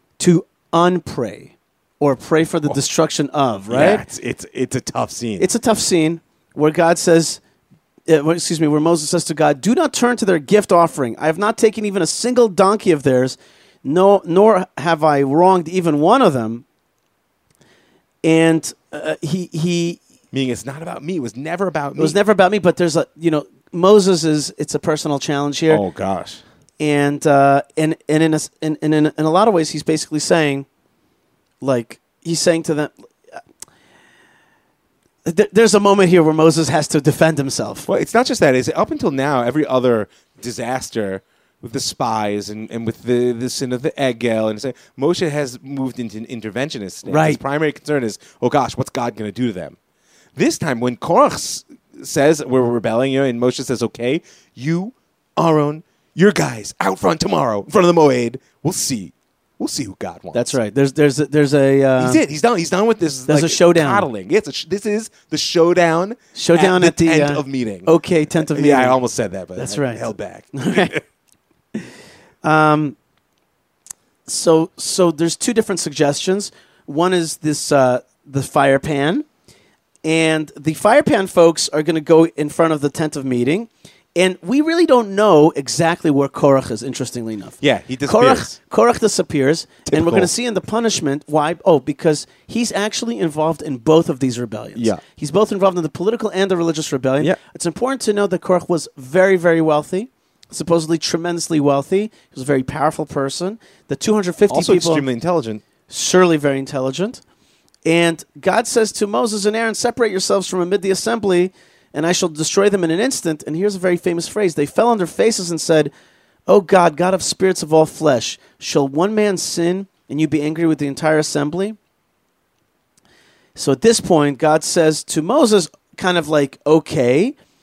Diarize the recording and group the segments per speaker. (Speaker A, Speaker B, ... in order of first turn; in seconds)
Speaker A: 0.2-4.0, 5.4-7.4, 8.1-16.6, 18.2-20.0, 22.0-25.8, 26.8-30.6, 31.6-33.4, 35.2-37.9, 47.0-47.4, 60.3-62.2, 63.3-64.1, 66.3-69.0, 69.5-71.0, 72.4-73.0, 74.3-79.3, 80.0-105.0, 105.9-107.2, 107.8-115.9, 116.5-121.8, 123.5-127.3
Speaker B: 3.7-5.5, 20.3-22.2, 25.7-26.4, 37.9-49.8, 50.4-60.5, 62.0-71.0, 87.6-88.5, 89.9-90.3, 94.7-95.0, 104.5-105.6